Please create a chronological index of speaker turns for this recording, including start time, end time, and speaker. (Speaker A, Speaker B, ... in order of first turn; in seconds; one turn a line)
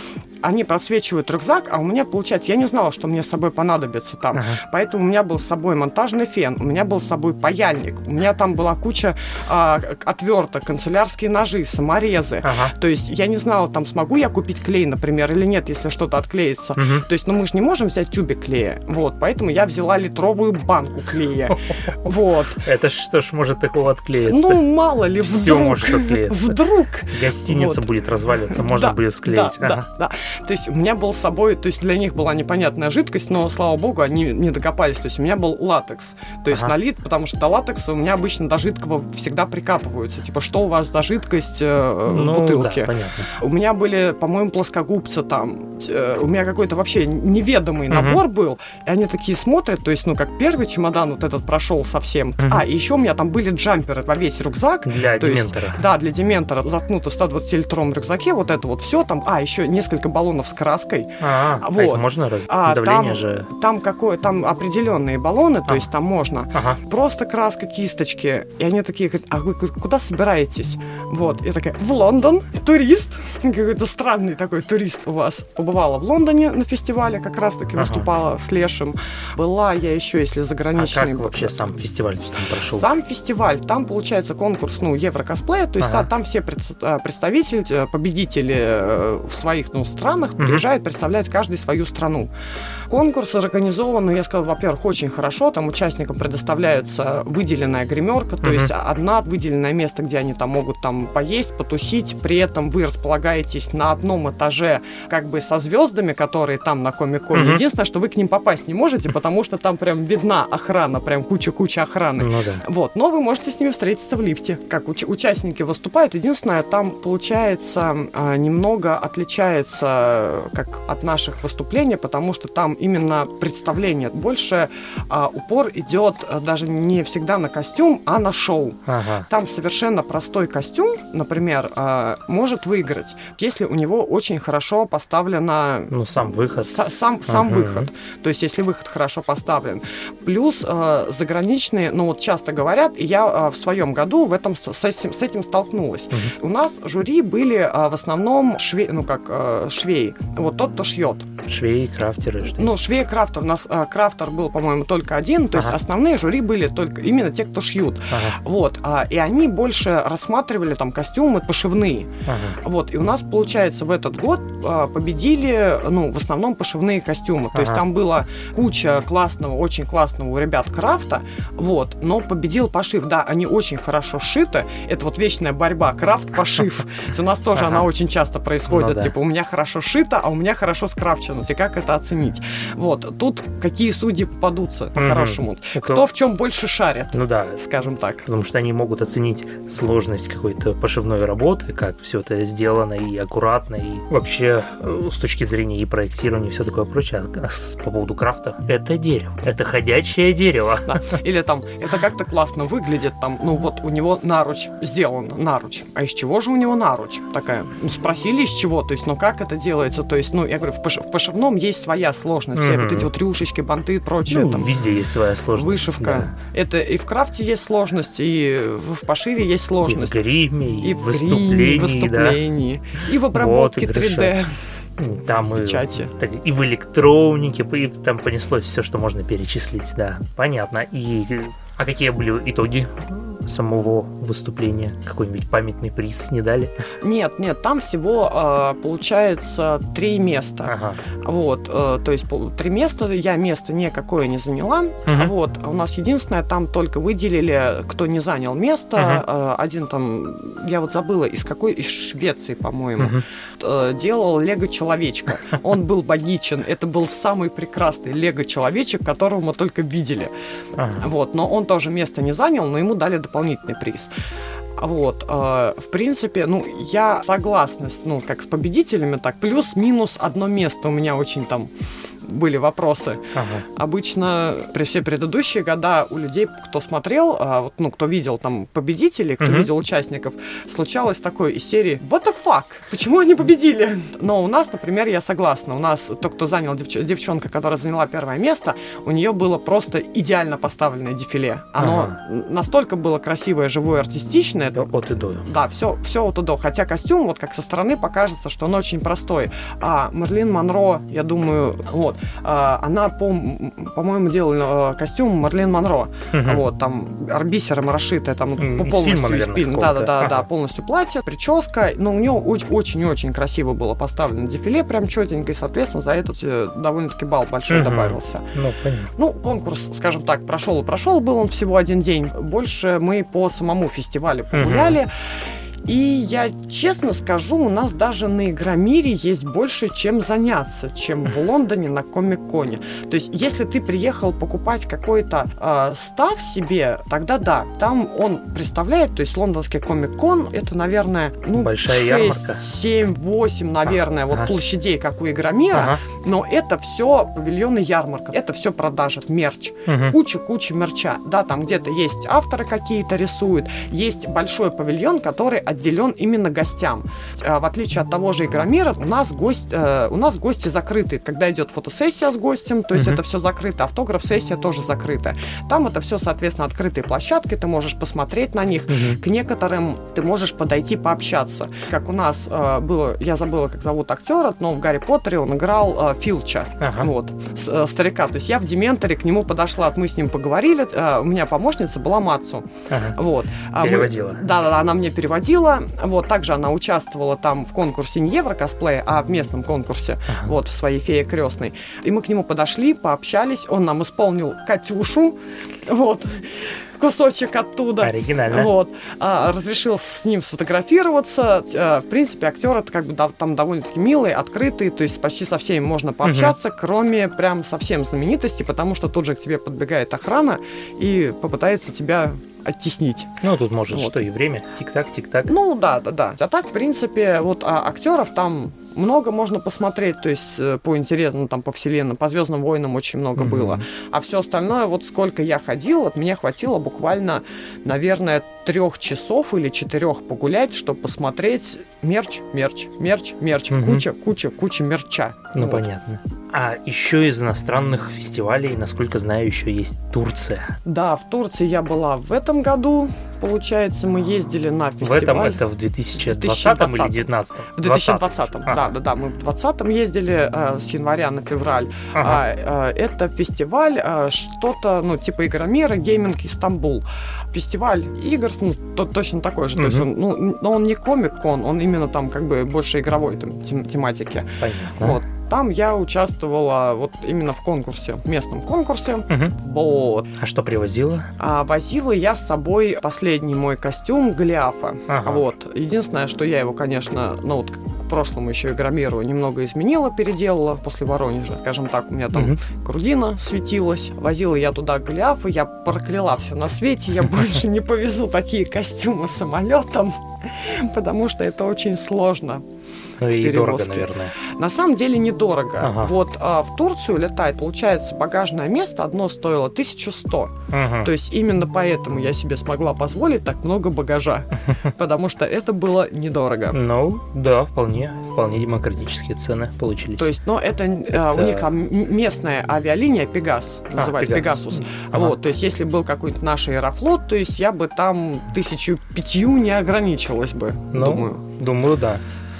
Speaker A: 0.4-22.6
Speaker B: 4.3-4.6
Speaker B: 12.4-12.7
Speaker B: 16.8-17.1
Speaker B: 21.5-22.1
Speaker B: 22.6-24.6
Speaker A: 24.2-27.9
Speaker B: 25.2-26.6
Speaker B: 27.1-29.8
Speaker A: 28.5-81.6
Speaker B: 42.1-43.3
Speaker B: 47.9-48.2
Speaker B: 54.8-55.8
Speaker B: 61.2-63.5
Speaker B: 66.5-66.8
Speaker B: 77.8-78.1
Speaker B: 80.8-82.9
Speaker A: 82.6-92.3
Speaker B: 85.8-86.1
Speaker A: 92.9-135.9
Speaker B: 98.4-98.7
Speaker B: 107.3-107.6
Speaker B: 112.2-112.6
Speaker B: 128.9-129.3
Speaker B: 135.9-137.9
Speaker A: 136.6-151.3
Speaker B: 151.4-152.7
Speaker A: 152.4-188.2
Speaker B: 158.1-158.4
Speaker B: 162.2-162.6
Speaker B: 167.5-167.8
Speaker B: 177.6-177.8
Speaker B: 178.7-179.1
Speaker B: 185.0-186.1
Speaker B: 187.1-187.6
Speaker B: 188.2-201.2
Speaker A: 200.9-214.7
Speaker B: 212.5-213.1
Speaker B: 214.3-216.3
Speaker A: 215.5-220.2
Speaker B: 219.8-222.4
Speaker A: 220.8-224.6
Speaker B: 223.3-224.3
Speaker B: 225.0-236.7
Speaker A: 225.5-226.1
Speaker A: 237.0-260.3
Speaker B: 240.7-241.0
Speaker B: 245.1-245.3
Speaker B: 253.0-253.2
Speaker B: 260.8-261.0
Speaker A: 261.0-264.1
Speaker A: 264.8-271.7
Speaker A: 272.2-294.9
Speaker B: 273.3-273.6
Speaker B: 279.4-279.7
Speaker B: 291.8-292.2
Speaker B: 294.7-295.4
Speaker A: 295.4-318.5
Speaker B: 306.3-306.6
Speaker B: 308.6-310.5
Speaker B: 317.7-319.1
Speaker A: 319.1-325.1
Speaker B: 324.5-325.0
Speaker A: 325.8-413.3
Speaker B: 341.5-342.6
Speaker B: 345.7-346.0
Speaker B: 349.9-350.2
Speaker B: 362.9-363.2
Speaker B: 368.9-369.2
Speaker B: 376.8-377.1
Speaker B: 382.9-383.2
Speaker B: 383.8-384.4
Speaker B: 390.3-390.5
Speaker B: 398.0-398.7
Speaker B: 406.2-406.5
Speaker B: 413.4-415.5
Speaker A: 413.9-414.2
Speaker A: 415.4-435.8
Speaker B: 423.4-423.8
Speaker B: 433.7-434.0
Speaker B: 435.5-440.8
Speaker A: 440.8-445.6
Speaker B: 445.0-448.8
Speaker A: 446.2-470.3
Speaker B: 452.1-452.4
Speaker B: 459.8-460.1
Speaker B: 464.6-465.2
Speaker B: 469.3-469.5
Speaker B: 470.4-471.3
Speaker A: 471.4-492.6
Speaker B: 475.1-475.4
Speaker B: 482.3-482.6
Speaker B: 493.2-494.3
Speaker A: 493.3-506.8
Speaker B: 495.8-496.1
Speaker B: 500.7-501.1
Speaker B: 506.7-510.3
Speaker A: 510.1-521.4
Speaker B: 511.1-511.7
Speaker B: 513.9-515.4
Speaker B: 520.9-522.2